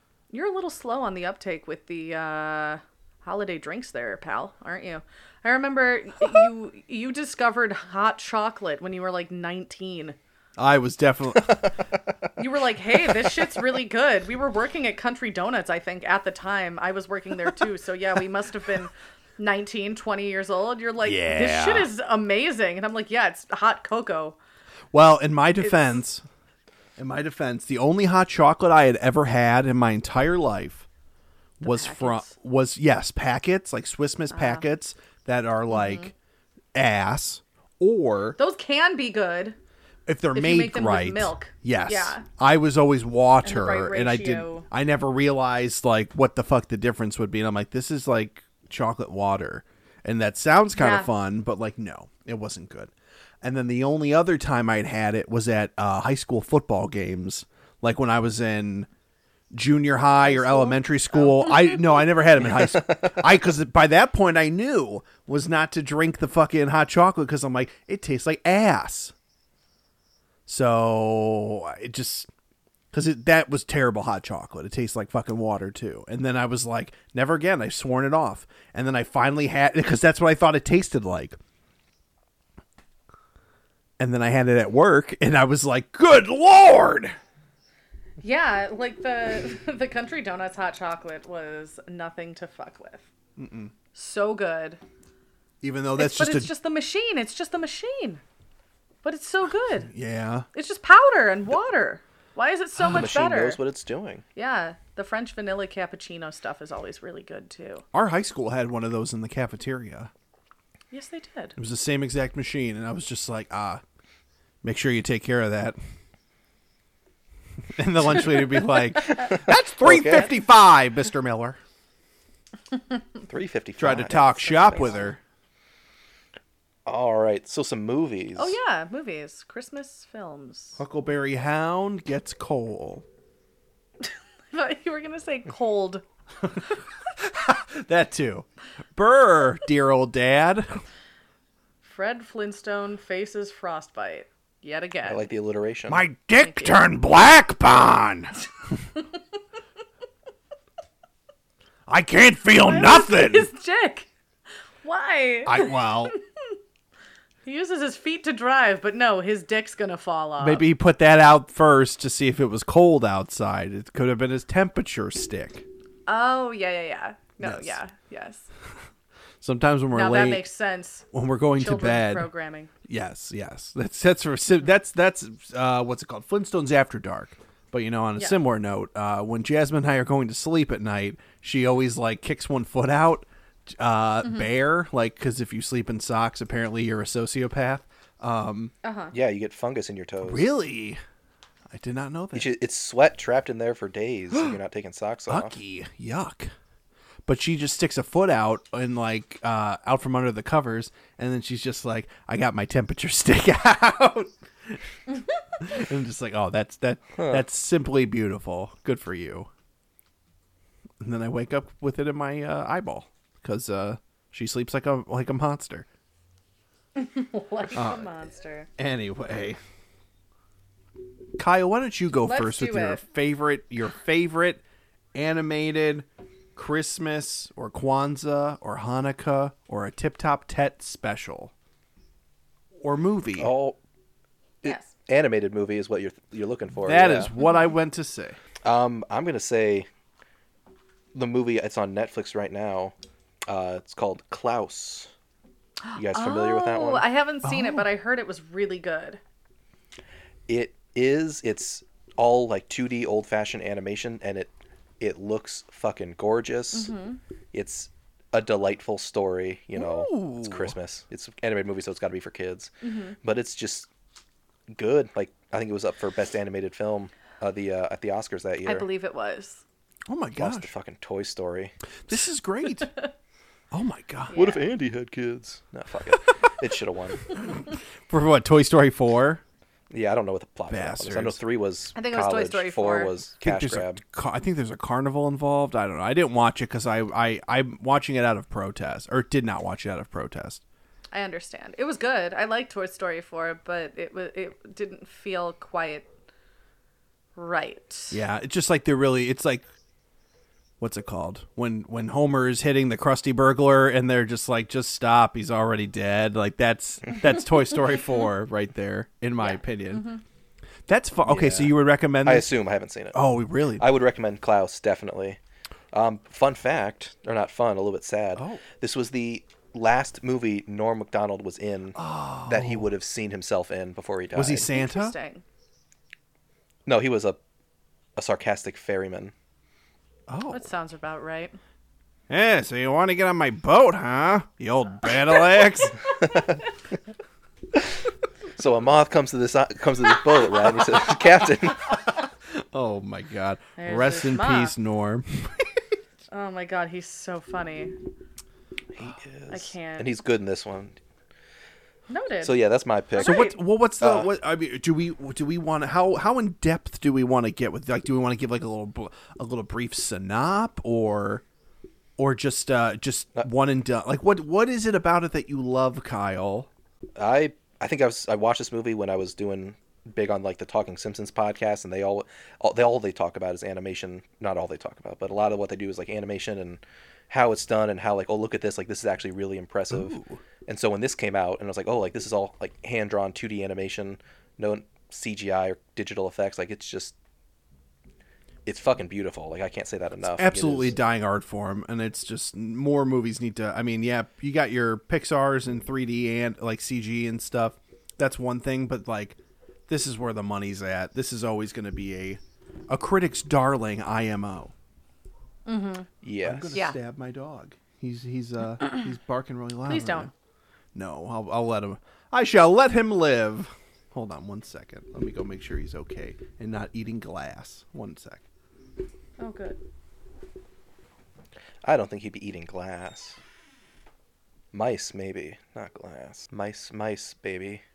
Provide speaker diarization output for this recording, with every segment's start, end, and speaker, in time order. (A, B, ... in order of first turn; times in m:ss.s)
0:00.3-0:10.2 A
0:10.6-0:11.7 B
0:12.4-0:24.4 A
0:21.0-0:21.9 B
0:24.9-0:26.2 B
0:25.6-0:26.0 A
0:27.0-0:30.9 B
0:31.6-0:36.1 B
0:31.6-0:32.3 A
0:34.3-0:34.6 A
0:35.7-0:36.1 A
0:36.7-0:38.4 B
0:38.4-0:39.6 A
0:40.1-0:58.9 B
0:40.4-0:42.3 A
0:43.4-0:44.7 A
0:50.8-0:51.1 A
0:59.5-1:09.1 B
1:00.2-1:01.8 A
1:02.8-1:03.2 C
1:10.5-1:12.3 B
1:12.9-1:21.4 B
1:24.0-1:27.2 B
1:28.2-1:33.1 A
1:33.4-1:33.7 B
1:34.0-1:34.8 A
1:35.6-1:36.5 B
1:36.0-1:38.2 A
1:39.0-1:39.9 A
1:39.9-1:40.5 B
1:40.5-1:43.6 A
1:42.8-1:44.2 C
1:44.4-1:47.8 A
1:47.9-1:50.1 B
1:50.9-1:51.6 A
1:51.6-1:53.8 B
1:54.6-1:55.8 B
1:57.7-2:01.6 B
1:59.2-2:00.3 C
2:03.3-2:05.1 C
2:03.8-2:05.2 B
2:04.1-2:05.1 A
2:06.9-2:08.6 C
2:08.4-2:10.8 A
2:10.8-2:13.0 B
2:14.0-2:16.0 A
2:16.4-2:20.8 B
2:21.8-2:25.3 A
2:25.0-2:26.0 C
2:25.9-2:28.3 B
2:26.4-2:26.8 A
2:31.9-2:33.5 B
2:32.6-2:34.1 A
2:34.8-2:36.2 A
2:35.4-2:36.1 B
2:37.4-2:40.7 A
2:40.4-2:45.7 B
2:46.1-2:48.5 A
2:47.4-2:47.8 B
2:49.4-2:50.4 B
2:49.9-2:52.7 A
2:51.1-2:52.3 B
2:52.8-3:08.7 B
3:08.8-3:09.1 A
3:09.1-3:10.5 C
3:10.2-3:11.0 B
3:11.7-3:12.5 B
3:12.3-3:15.6 C
3:15.3-3:16.5 B
3:17.3-3:24.9 B
3:25.6-3:29.5 B
3:27.2-3:27.4 C
3:31.0-3:35.9 B
3:37.0-3:38.7 A
3:37.7-3:38.1 B
3:38.8-3:39.6 B
3:41.4-3:44.6 B
3:42.2-3:43.0 A
3:45.2-3:51.5 B
3:52.8-3:53.5 B
3:53.4-3:53.8 C
3:54.6-3:57.3 C
3:54.6-3:54.9 A
3:56.8-3:58.4 B
3:57.4-3:57.7 A
3:58.6-3:59.9 C
4:01.1-4:03.0 C
4:03.5-4:05.1 C
4:05.8-4:09.2 A
4:06.0-4:07.1 C
4:07.4-4:07.9 B
4:10.5-4:16.9 C
4:16.7-4:17.2 A
4:17.5-4:22.7 C
4:19.8-4:20.8 B
4:22.8-4:23.2 A
4:23.2-4:23.9 C
4:24.7-4:28.9 C
4:28.6-4:29.6 A
4:30.1-4:30.7 B
4:30.4-4:31.8 C
4:32.1-4:32.9 B
4:33.7-4:34.4 B
4:34.3-4:34.7 A
4:34.3-4:37.4 C
4:37.4-4:39.4 B
4:39.9-4:44.0 C
4:40.7-4:41.4 B
4:42.0-4:43.1 A
4:43.4-4:50.6 B
4:51.1-4:56.1 A
4:57.4-4:58.2 A
4:58.1-4:59.7 B
5:00.8-5:10.1 B
5:09.4-5:10.2 A
5:10.9-5:12.6 B
5:11.2-5:15.4 C
5:13.1-5:13.9 B
5:15.9-5:24.7 C
5:18.4-5:18.6 B
5:22.0-5:22.9 B
5:24.4-5:25.2 B
5:24.7-5:25.4 A
5:26.9-5:27.4 C
5:28.2-5:29.3 C
5:30.3-5:30.7 B
5:30.5-5:31.6 A
5:32.3-5:36.0 B
5:36.2-5:36.6 C
5:38.6-5:42.0 C
5:42.6-5:45.8 B
5:43.8-5:44.8 A
5:46.3-5:48.0 A
5:48.9-5:51.0 C
5:49.5-5:50.2 A
5:52.1-5:52.6 A
5:52.4-5:53.5 C
5:53.2-5:53.6 A
5:53.2-6:01.4 B
5:54.0-5:54.3 C
6:02.2-6:06.7 B
6:07.2-6:27.2 C
6:19.9-6:20.4 B
6:28.7-6:31.0 C
6:30.2-6:44.7 B
6:45.7-6:46.1 A
6:46.2-6:46.7 C
6:46.4-6:50.3 B
6:49.8-6:50.3 A
6:50.9-6:58.4 B
6:59.4-6:59.8 A
7:01.8-7:03.4 C
7:04.7-7:07.8 C